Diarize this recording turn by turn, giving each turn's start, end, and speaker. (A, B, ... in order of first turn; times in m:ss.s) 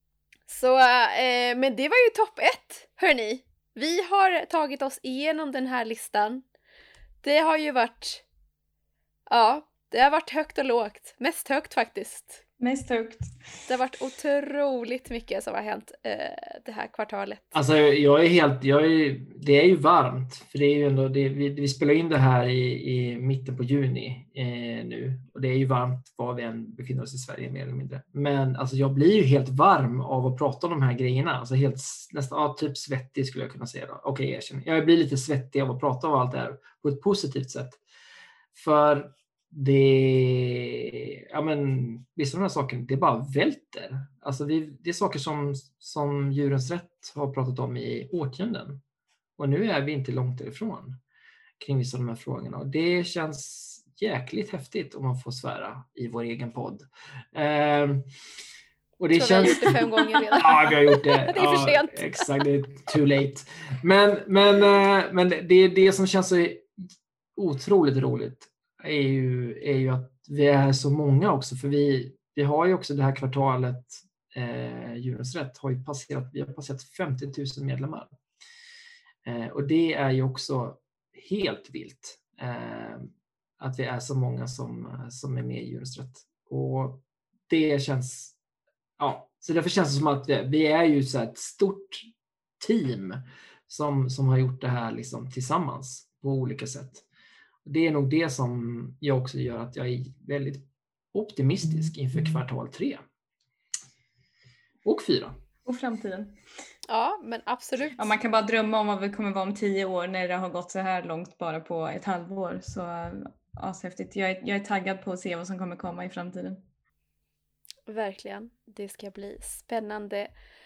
0:00.5-0:06.4 A
0:07.2-0:08.2 A
0:09.3-0:12.4 A
0:12.6-0:13.3 B
0:13.7-0:17.6 A
0:17.5-0:37.8 C
0:38.5-0:48.8 C
0:49.4-0:51.0 C
0:51.6-0:58.0 C
0:59.0-1:06.8 C
0:59.1-1:02.4 A
1:07.4-1:18.1 C
1:19.2-1:28.3 C
1:29.0-1:32.1 C
1:32.6-1:37.0 C
1:37.6-1:43.0 C
1:44.8-1:45.4 C
1:45.6-1:46.3 B
1:46.9-1:48.1 A
1:48.0-1:56.6 B
1:57.9-2:00.3 A